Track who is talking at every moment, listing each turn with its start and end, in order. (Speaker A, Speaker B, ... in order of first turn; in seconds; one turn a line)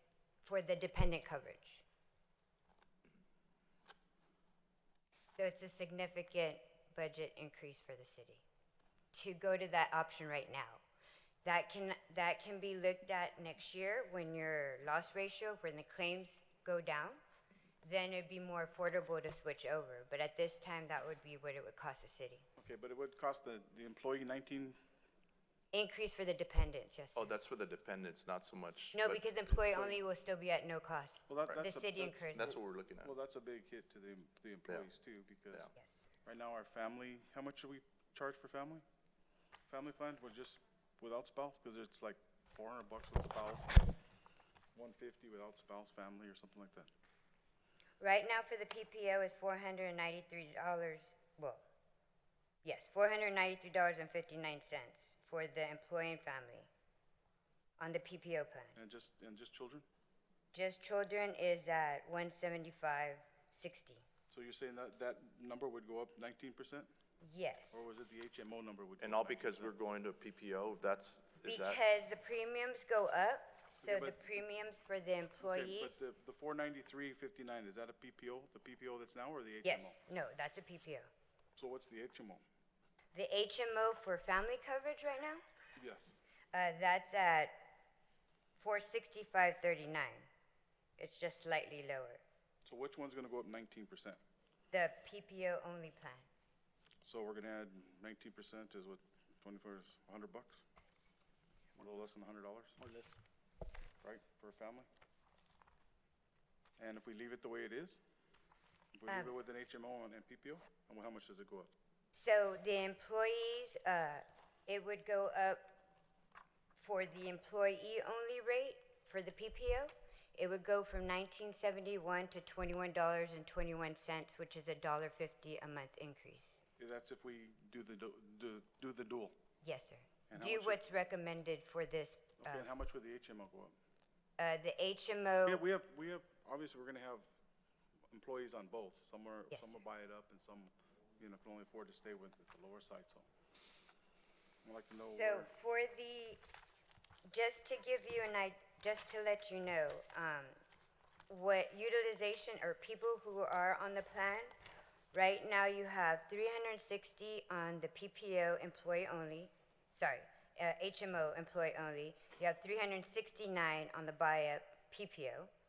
Speaker A: 0.4-1.8
Speaker A: 5.4-8.4
Speaker A: 9.1-10.8
Speaker A: 11.4-17.2
Speaker A: 17.8-22.4
Speaker B: 22.6-24.8
Speaker A: 25.7-27.3
Speaker C: 27.2-29.2
Speaker A: 28.9-32.5
Speaker B: 29.7-30.0
Speaker B: 31.3-35.7
Speaker C: 32.3-33.1
Speaker B: 36.2-38.8
Speaker B: 39.7-43.9
Speaker B: 44.8-46.9
Speaker A: 48.0-51.6
Speaker A: 52.6-56.7
Speaker A: 57.8-58.8
Speaker B: 58.8-59.9
Speaker A: 60.5-64.0
Speaker B: 64.3-66.9
Speaker A: 67.2-67.8
Speaker B: 67.7-69.7
Speaker C: 69.0-71.8
Speaker A: 71.4-76.0
Speaker B: 73.8-74.3
Speaker B: 75.4-80.0
Speaker A: 79.6-81.1
Speaker B: 81.5-82.4
Speaker A: 83.1-85.4
Speaker B: 85.8-86.1
Speaker A: 86.5-87.7
Speaker A: 88.5-90.3
Speaker A: 91.0-92.2
Speaker B: 92.6-94.2
Speaker A: 94.7-96.3
Speaker B: 97.0-100.6
Speaker B: 101.8-102.8
Speaker B: 104.0-104.9
Speaker B: 106.8-108.0
Speaker B: 108.9-111.7
Speaker A: 109.1-109.3
Speaker A: 112.1-115.8
Speaker A: 116.8-126.6
Speaker B: 126.8-129.3
Speaker A: 129.6-132.7
Speaker B: 130.3-130.8
Speaker B: 132.4-133.8
Speaker A: 134.4-135.6
Speaker B: 135.4-137.3
Speaker B: 138.1-143.3
Speaker B: 144.6-145.5
Speaker A: 145.0-146.4
Speaker A: 147.3-150.6
Speaker A: 151.3-154.5
Speaker A: 155.1-165.5